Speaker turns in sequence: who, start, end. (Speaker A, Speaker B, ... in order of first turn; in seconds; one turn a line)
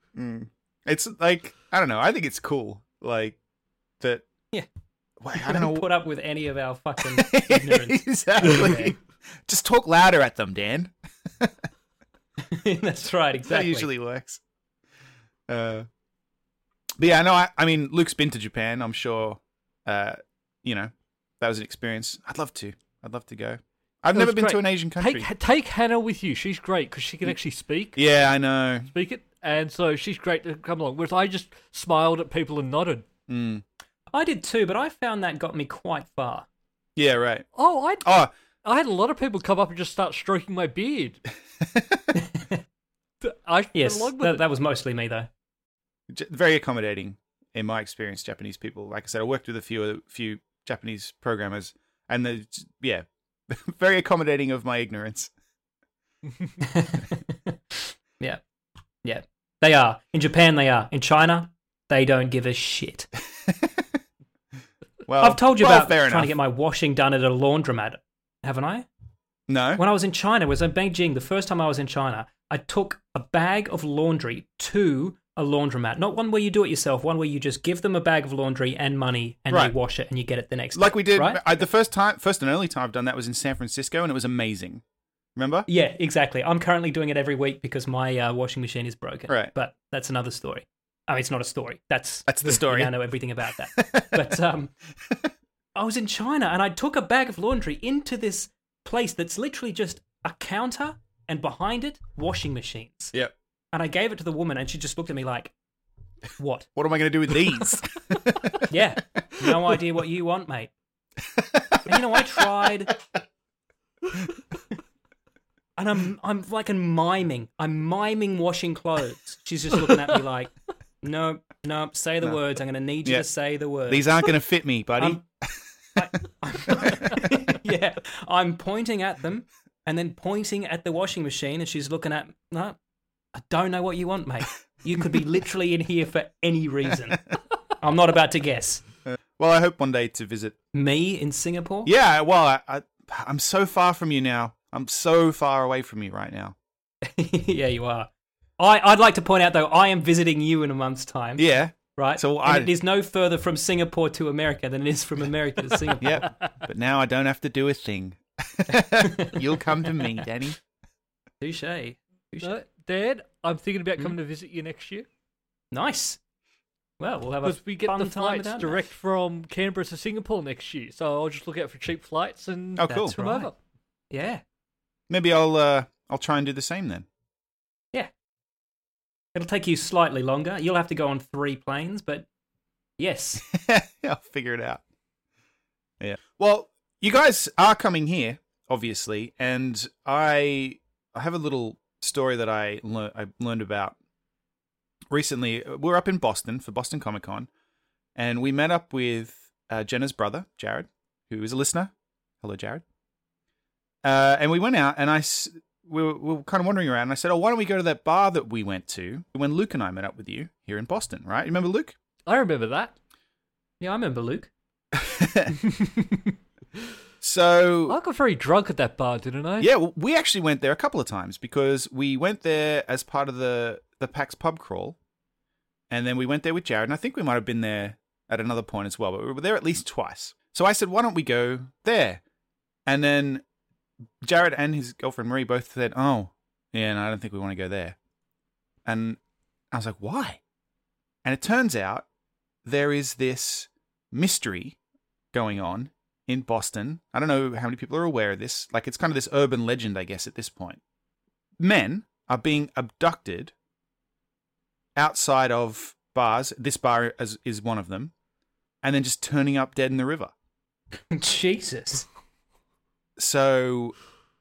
Speaker A: 0.1-3.4
Speaker A: 4.0-4.2
Speaker A: 5.2-5.9
Speaker B: 5.3-8.9
Speaker A: 7.0-11.5
Speaker B: 12.4-13.9
Speaker A: 13.4-14.4
Speaker A: 15.5-15.9
Speaker A: 17.0-25.3
Speaker C: 24.1-28.0
Speaker A: 27.9-28.9
Speaker C: 28.9-33.0
Speaker A: 33.3-33.6
Speaker B: 34.1-36.5
Speaker A: 37.0-37.5
Speaker C: 37.5-41.2
Speaker A: 38.0-38.3
Speaker A: 41.6-42.1
Speaker B: 42.1-42.5
Speaker C: 43.2-44.4
Speaker B: 43.7-45.3
Speaker A: 46.1-55.3
Speaker B: 56.6-58.4
Speaker B: 59.0-63.1
Speaker A: 63.4-63.8
Speaker A: 65.1-66.3
Speaker B: 65.2-68.9
Speaker A: 69.5-69.8
Speaker B: 69.8-81.4
Speaker A: 80.7-84.8
Speaker A: 85.4-85.7
Speaker B: 85.7-94.7
Speaker A: 92.3-92.9
Speaker A: 93.7-94.3
Speaker B: 95.8-103.1
Speaker B: 103.7-105.5
Speaker B: 106.4-106.7
Speaker A: 106.7-108.6
Speaker B: 108.7-110.7
Speaker A: 111.2-112.1
Speaker B: 111.9-112.9
Speaker B: 115.8-124.2
Speaker A: 123.9-126.0
Speaker B: 126.0-132.8
Speaker B: 133.3-137.2
Speaker B: 137.8-138.8
Speaker A: 139.1-140.6
Speaker B: 140.7-141.9
Speaker A: 141.8-146.6
Speaker B: 147.0-156.3
Speaker A: 151.4-152.7
Speaker A: 156.0-160.6
Speaker B: 158.9-159.4
Speaker B: 161.4-162.6
Speaker C: 162.4-165.1
Speaker B: 165.7-166.2
Speaker B: 167.0-168.8
Speaker C: 167.4-173.6
Speaker A: 172.8-173.2
Speaker B: 172.9-173.5
Speaker B: 174.1-174.4
Speaker A: 175.1-177.1
Speaker B: 179.3-182.2
Speaker B: 183.0-183.4
Speaker A: 183.4-184.8
Speaker A: 186.0-193.9
Speaker A: 195.1-197.5
Speaker A: 198.2-202.8
Speaker A: 204.0-211.9
Speaker C: 212.2-212.9
Speaker B: 213.8-214.5
Speaker A: 214.9-215.6
Speaker A: 217.2-218.0
Speaker C: 217.9-219.7
Speaker A: 219.6-225.0
Speaker A: 225.9-232.2
Speaker A: 232.9-233.4
Speaker A: 234.2-238.0
Speaker A: 238.8-239.2
Speaker A: 239.7-240.4
Speaker A: 241.2-242.1
Speaker A: 242.6-244.8
Speaker A: 245.3-250.8
Speaker A: 251.6-253.5
Speaker A: 254.9-258.1
Speaker A: 258.8-260.3
Speaker B: 261.1-262.1
Speaker A: 263.2-263.9